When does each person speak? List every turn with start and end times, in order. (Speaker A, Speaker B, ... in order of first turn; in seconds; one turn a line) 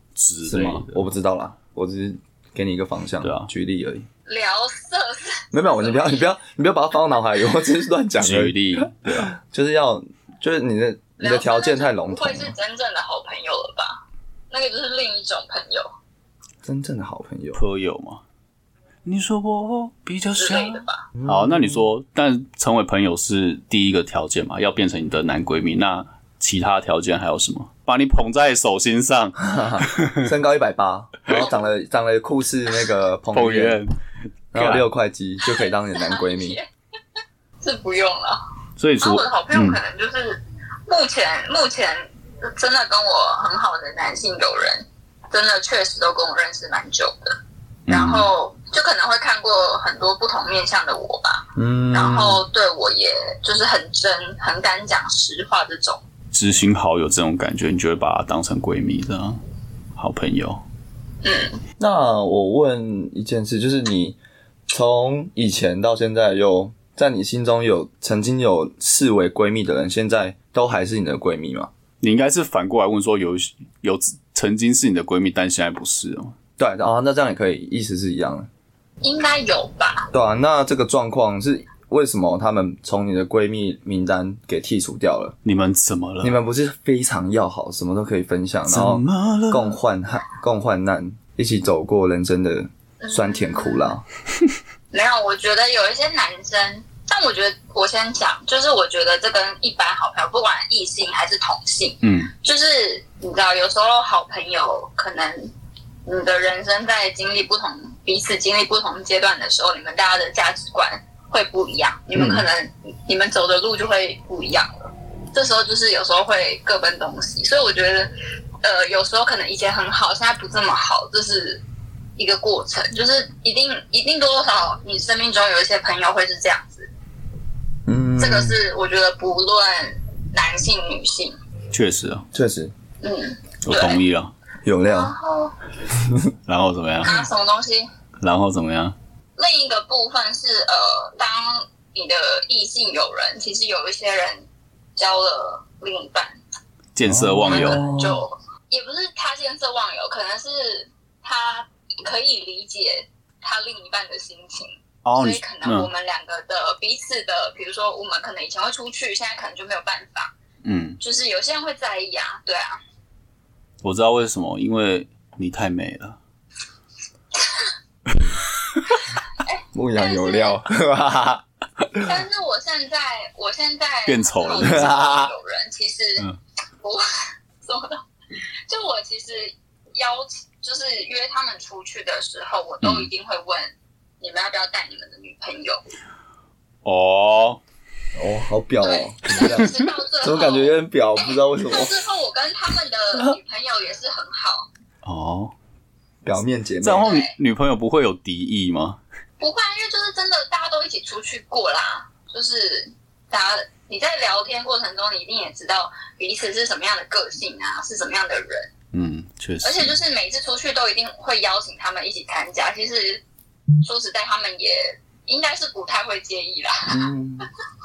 Speaker A: 0.2-1.0
Speaker B: 0.5-4.1
Speaker A: 3.2-3.5
Speaker C: 4.3-6.3
Speaker B: 5.5-12.5
Speaker A: 8.2-9.3
Speaker C: 11.2-15.9
Speaker B: 16.6-17.6
Speaker A: 17.5-18.2
Speaker A: 19.1-30.3
Speaker C: 20.4-21.1
Speaker B: 21.2-21.8
Speaker B: 29.4-33.8
Speaker A: 33.3-34.0
Speaker A: 34.5-34.9
Speaker B: 34.5-36.6
Speaker C: 35.4-36.7
Speaker C: 37.6-38.4
Speaker A: 38.8-39.8
Speaker C: 39.0-47.4
Speaker A: 47.9-48.3
Speaker C: 47.9-56.0
Speaker B: 51.6-52.4
Speaker A: 56.3-59.4
Speaker A: 60.0-60.6
Speaker C: 61.2-61.6
Speaker B: 61.8-64.2
Speaker B: 64.7-71.7
Speaker A: 72.0-76.4
Speaker B: 76.6-78.5
Speaker C: 79.0-80.1
Speaker B: 80.1-85.4
Speaker A: 85.4-86.4
Speaker B: 86.2-94.0
Speaker A: 88.7-89.8
Speaker C: 93.0-93.9
Speaker C: 94.9-105.5
Speaker A: 102.0-102.3
Speaker C: 106.1-118.1
Speaker B: 112.1-112.5
Speaker C: 118.6-121.6
Speaker C: 122.2-126.9
Speaker B: 127.9-128.6
Speaker C: 128.2-131.4
Speaker A: 131.7-132.3
Speaker B: 132.3-132.7
Speaker C: 133.0-134.0
Speaker A: 133.7-134.3
Speaker B: 134.6-135.1
Speaker C: 134.8-135.6
Speaker B: 136.0-136.3
Speaker A: 136.5-137.2
Speaker C: 137.0-137.9
Speaker A: 138.2-139.0
Speaker C: 139.4-146.4
Speaker A: 146.9-147.8
Speaker B: 147.1-148.2
Speaker C: 147.4-160.3
Speaker A: 155.1-155.9
Speaker A: 160.6-161.0
Speaker C: 161.0-162.8
Speaker A: 163.8-166.2
Speaker C: 167.4-167.7
Speaker A: 168.2-168.8
Speaker C: 168.9-170.6
Speaker B: 169.7-172.2
Speaker C: 172.0-176.3
Speaker A: 174.1-175.0
Speaker B: 174.6-175.3
Speaker C: 177.6-178.0
Speaker C: 178.7-185.8
Speaker A: 182.8-183.1
Speaker A: 186.8-187.6
Speaker B: 188.2-192.0
Speaker C: 188.8-194.7
Speaker A: 195.0-195.5
Speaker B: 196.2-197.1
Speaker A: 196.8-199.0
Speaker C: 197.0-197.3
Speaker C: 199.4-208.7
Speaker A: 208.9-209.9
Speaker C: 209.6-213.2
Speaker C: 213.8-217.1
Speaker B: 216.9-217.5